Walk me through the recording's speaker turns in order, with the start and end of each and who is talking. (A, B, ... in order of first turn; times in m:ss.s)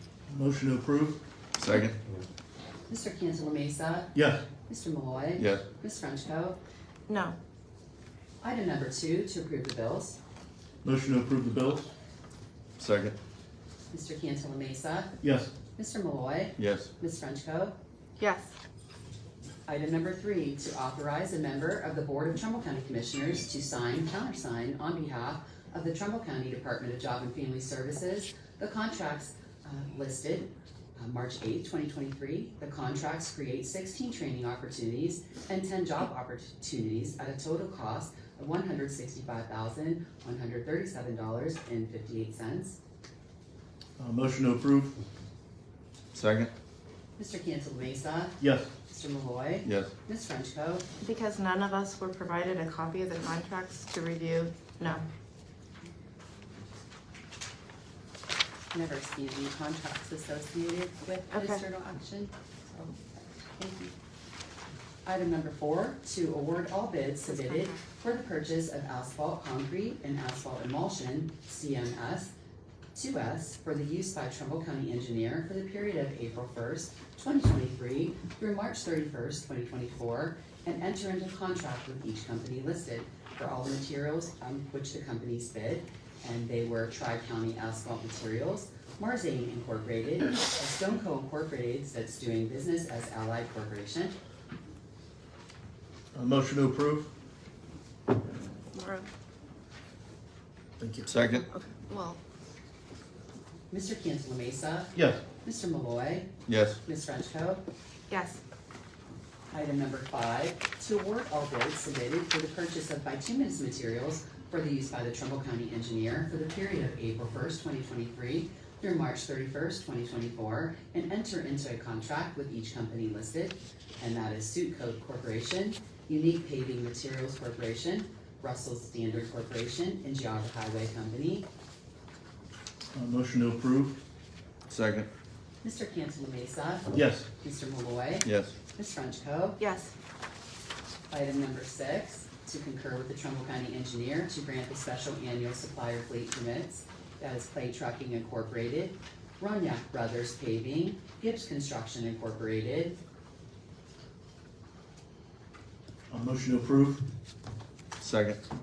0:00.3-0:01.2 A
0:01.6-0:02.0 B
0:02.9-0:06.6 C
0:04.1-0:04.4 A
0:05.4-0:05.6 B
0:07.1-0:07.4 D
0:08.4-0:10.2 C
0:10.8-0:11.9 A
0:12.8-0:13.2 B
0:13.9-0:15.2 C
0:15.2-0:15.5 A
0:15.8-0:17.8 C
0:16.6-0:16.9 B
0:18.2-0:18.6 D
0:19.7-0:42.8 C
0:44.0-0:45.0 A
0:46.1-0:46.5 B
0:47.2-0:50.9 C
0:48.4-0:48.7 A
0:49.6-0:49.9 B
0:51.0-0:55.1 D
0:58.7-1:03.9 C
1:01.3-1:01.6 D
1:05.0-1:12.3 C
1:07.3-1:07.8 D
1:13.0-1:34.2 C
1:36.1-1:37.1 A
1:38.7-1:39.1 D
1:40.8-1:41.1 A
1:41.1-1:41.5 B
1:41.3-1:42.2 D
1:43.7-1:47.6 C
1:45.0-1:45.2 A
1:46.5-1:46.8 B
1:48.1-1:48.4 D
1:49.5-2:11.5 C
2:12.9-2:14.0 A
2:14.7-2:15.1 B
2:15.6-2:19.6 C
2:16.9-2:17.3 A
2:18.2-2:18.5 B
2:19.6-2:19.9 D
2:21.1-2:33.0 C
2:36.1-2:37.1 A
2:38.0-2:38.4 B